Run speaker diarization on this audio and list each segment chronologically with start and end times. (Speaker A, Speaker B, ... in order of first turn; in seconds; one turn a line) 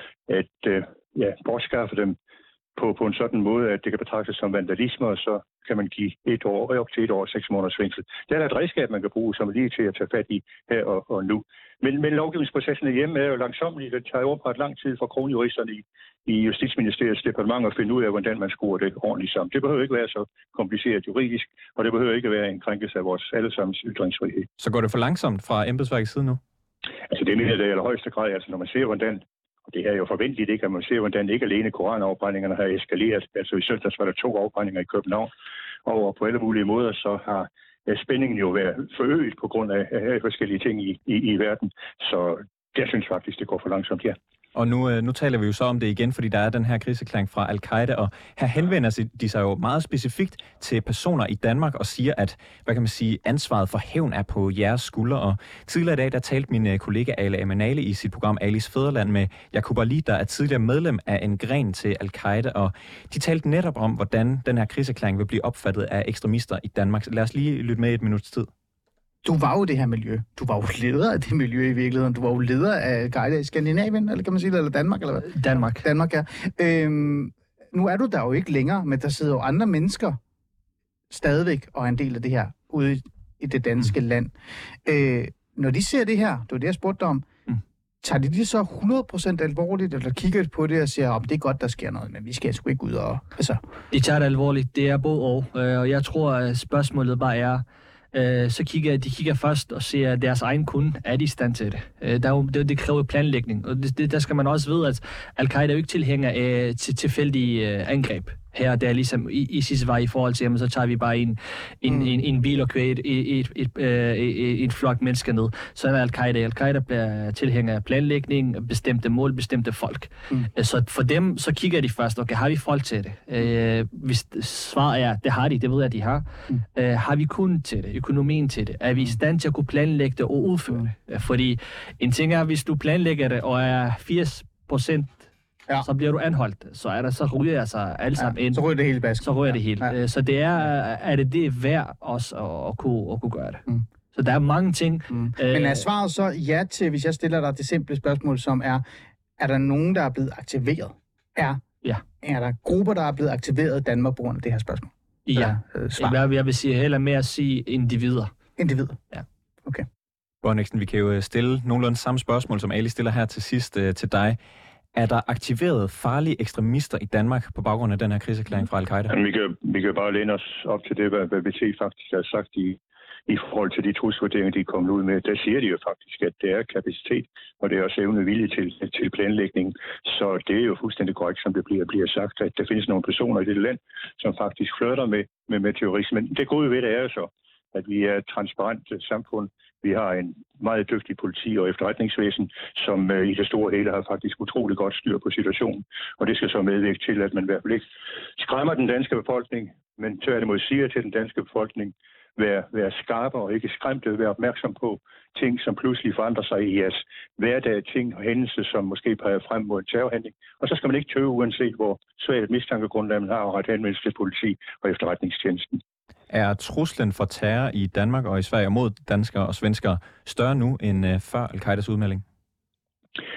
Speaker A: 0.3-2.2
Speaker A: 2.8-24.5
Speaker B: 24.6-26.4
Speaker A: 27.1-35.3
Speaker A: 35.8-44.1
Speaker B: 44.5-68.5
Speaker C: 69.2-80.2
Speaker D: 75.3-75.8
Speaker C: 81.1-84.3
Speaker C: 84.8-87.2
Speaker C: 88.0-93.6
Speaker D: 93.9-135.3
Speaker C: 111.8-112.2
Speaker D: 135.8-138.6
Speaker C: 138.1-140.0
Speaker D: 139.2-145.8
Speaker C: 145.1-148.8
Speaker C: 149.4-151.6
Speaker C: 152.2-156.2
Speaker D: 155.2-158.3
Speaker C: 158.6-159.0
Speaker B: 160.4-164.4
Speaker B: 164.9-169.2
Speaker A: 169.1-197.8
Speaker A: 198.4-215.8
Speaker B: 216.3-222.2